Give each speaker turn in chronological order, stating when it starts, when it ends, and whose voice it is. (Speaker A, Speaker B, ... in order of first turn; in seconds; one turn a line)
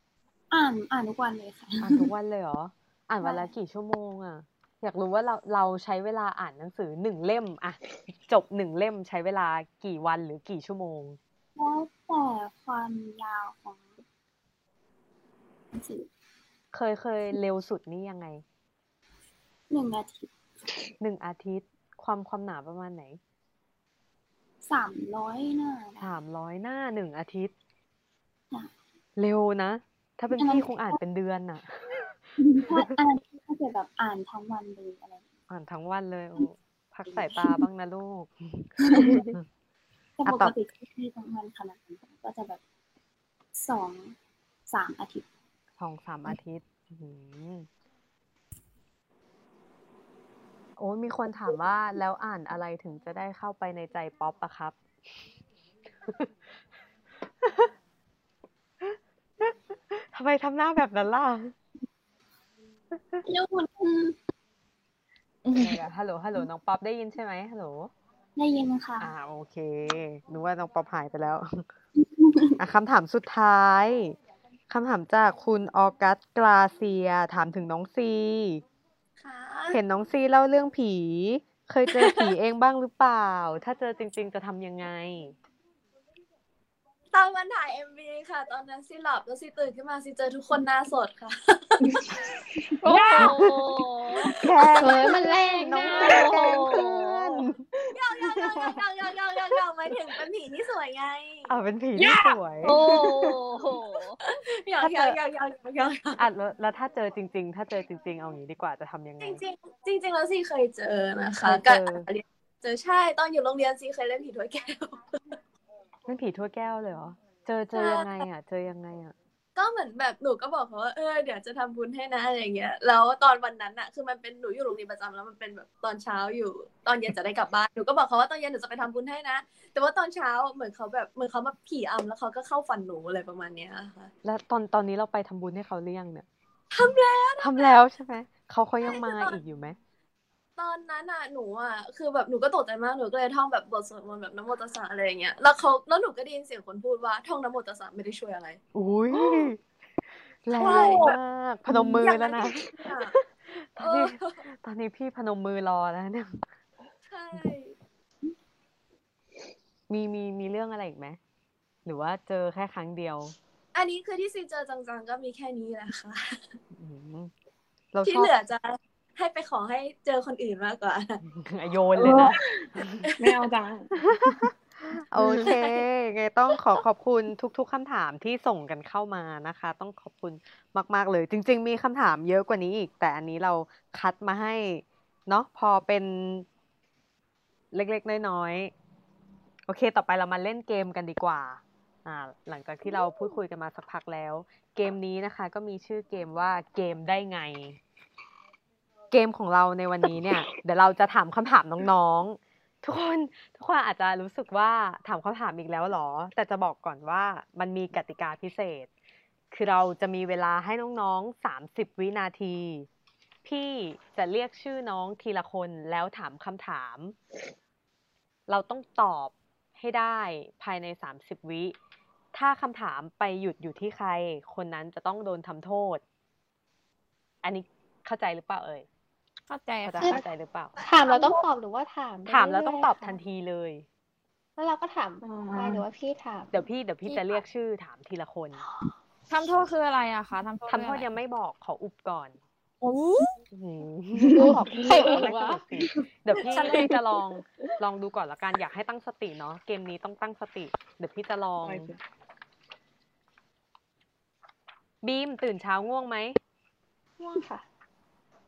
Speaker A: 0.5-2.1
Speaker B: 1.8-11.2
Speaker A: 3.2-3.5
Speaker A: 11.6-13.9
Speaker A: 15.7-16.1
Speaker B: 16.7-18.4
Speaker A: 19.7-20.3
Speaker B: 21.0-23.2
Speaker A: 24.6-26.1
Speaker B: 26.0-27.5
Speaker B: 29.2-32.1
Speaker A: 30.3-31.0
Speaker A: 32.4-35.3
Speaker B: 35.5-39.4
Speaker A: 37.1-37.6
Speaker A: 38.8-39.3
Speaker A: 40.2-42.6
Speaker B: 40.2-40.5
Speaker A: 43.5-44.1
Speaker A: 44.7-45.2
Speaker B: 45.8-47.7
Speaker B: 50.8-54.8
Speaker B: 57.4-57.7
Speaker B: 58.8-61.5
Speaker B: 62.9-63.2
Speaker A: 63.2-64.2
Speaker C: 65.4-65.8
Speaker B: 65.5-67.9
Speaker A: 68.4-69.1
Speaker B: 69.0-71.7
Speaker A: 72.0-72.5
Speaker B: 72.6-74.2
Speaker B: 74.7-78.6
Speaker D: 79.2-79.8
Speaker B: 79.7-85.3
Speaker D: 81.9-82.3
Speaker D: 87.1-92.4
Speaker E: 92.8-94.3
Speaker C: 92.9-93.2
Speaker B: 93.2-93.8
Speaker D: 94.2-96.8
Speaker B: 94.3-97.6
Speaker F: 94.8-96.5
Speaker E: 96.0-97.4
Speaker D: 97.9-103.3
Speaker B: 101.5-102.8
Speaker E: 102.6-104.2
Speaker D: 104.2-106.2
Speaker B: 104.8-105.2
Speaker B: 106.2-109.4
Speaker D: 109.2-115.0
Speaker B: 111.4-112.1
Speaker B: 116.1-119.1
Speaker D: 117.7-118.2
Speaker D: 119.5-134.1
Speaker B: 134.2-136.2
Speaker D: 136.7-137.8
Speaker B: 137.4-139.8
Speaker D: 138.8-139.4
Speaker D: 140.6-148.6
Speaker B: 148.7-149.6
Speaker B: 150.4-156.4
Speaker D: 150.6-151.1
Speaker C: 150.6-151.1
Speaker D: 151.7-153.1
Speaker D: 153.8-154.4
Speaker D: 157.1-157.7
Speaker B: 159.9-161.2
Speaker B: 161.8-163.3
Speaker D: 163.7-166.5
Speaker B: 166.7-167.3
Speaker B: 167.9-168.3
Speaker D: 168.0-171.2
Speaker B: 171.2-173.1
Speaker D: 172.0-172.4
Speaker D: 173.0-173.3
Speaker G: 173.2-174.5
Speaker B: 174.1-186.4
Speaker G: 175.2-175.5
Speaker B: 187.7-188.7
Speaker B: 189.7-197.8
Speaker B: 199.1-208.9
Speaker B: 209.5-212.9
Speaker B: 213.4-217.2
Speaker B: 218.5-221.8
Speaker B: 222.3-226.0
Speaker B: 227.4-228.9
Speaker C: 229.5-230.2
Speaker B: 229.8-230.7
Speaker F: 230.8-233.2
Speaker C: 231.1-231.4
Speaker B: 232.2-233.8
Speaker F: 234.6-236.5
Speaker G: 235.2-235.8
Speaker B: 236.5-238.6
Speaker C: 237.1-237.4
Speaker C: 239.3-241.1
Speaker B: 240.7-242.4
Speaker C: 242.8-243.3
Speaker B: 243.5-251.9
Speaker G: 244.2-245.3
Speaker F: 244.3-245.6
Speaker C: 246.4-246.9
Speaker G: 251.6-252.0
Speaker B: 255.0-256.4
Speaker F: 257.2-257.6